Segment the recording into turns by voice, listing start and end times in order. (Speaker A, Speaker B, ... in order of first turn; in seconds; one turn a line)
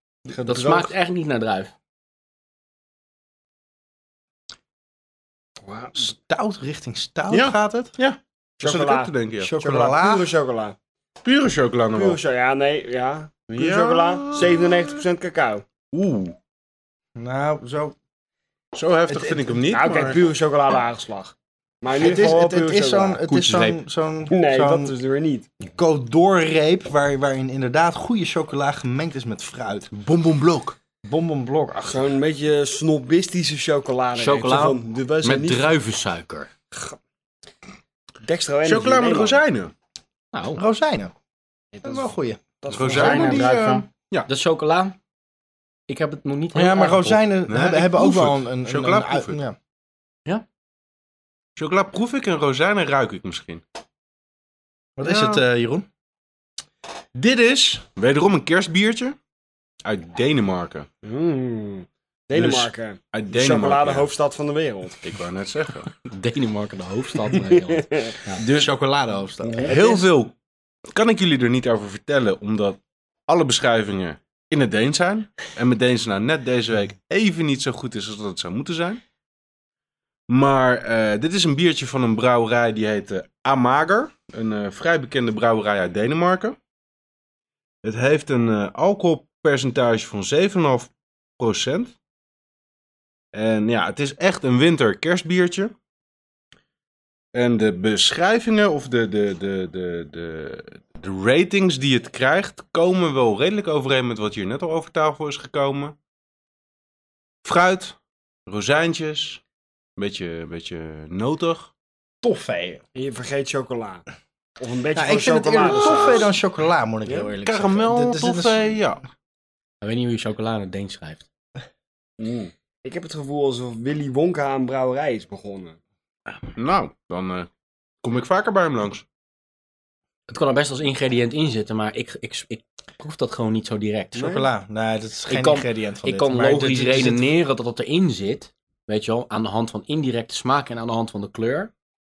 Speaker A: 0.4-1.7
Speaker B: 0.4-0.8
Speaker B: 5.7-5.9
Speaker C: 6.0-7.9
Speaker D: 7.3-9.5
Speaker B: 8.6-10.8
Speaker C: 9.4-10.3
Speaker D: 11.2-12.2
Speaker B: 11.9-15.6
Speaker D: 13.5-15.0
Speaker D: 15.9-16.4
Speaker C: 17.2-17.9
Speaker D: 18.7-20.2
Speaker C: 19.1-19.6
Speaker B: 19.7-23.2
Speaker C: 22.0-24.9
Speaker A: 23.3-23.8
Speaker B: 24.3-25.5
Speaker C: 25.6-29.9
Speaker D: 29.9-30.8
Speaker C: 31.1-32.0
Speaker B: 31.8-35.7
Speaker A: 34.1-36.5
Speaker B: 38.2-39.4
Speaker D: 38.6-39.7
Speaker A: 40.3-40.6
Speaker C: 40.6-41.1
Speaker B: 41.7-43.5
Speaker C: 41.8-42.4
Speaker D: 42.7-44.3
Speaker A: 42.9-45.0
Speaker A: 45.9-47.2
Speaker C: 46.5-49.6
Speaker D: 47.5-49.4
Speaker D: 51.6-53.6
Speaker C: 55.0-55.9
Speaker D: 55.0-55.4
Speaker D: 57.1-59.2
Speaker D: 59.9-60.9
Speaker B: 61.0-65.0
Speaker D: 62.3-64.1
Speaker D: 65.0-66.0
Speaker A: 66.1-68.4
Speaker B: 67.7-68.2
Speaker C: 68.4-69.7
Speaker D: 68.4-68.7
Speaker B: 69.6-70.1
Speaker D: 69.6-70.3
Speaker D: 70.9-79.0
Speaker D: 80.3-86.6
Speaker D: 87.8-92.0
Speaker D: 93.3-95.7
Speaker D: 97.3-106.0
Speaker D: 107.4-109.4
Speaker D: 110.0-111.7
Speaker C: 112.2-112.8
Speaker B: 113.0-114.0
Speaker B: 114.6-116.3
Speaker C: 115.0-118.8
Speaker B: 117.1-117.3
Speaker D: 117.5-119.0
Speaker A: 119.8-121.3
Speaker D: 122.2-122.5
Speaker B: 122.8-125.8
Speaker D: 126.5-127.5
Speaker D: 128.0-129.1
Speaker A: 130.3-134.3
Speaker B: 134.1-134.5
Speaker C: 134.2-137.2
Speaker A: 135.3-141.7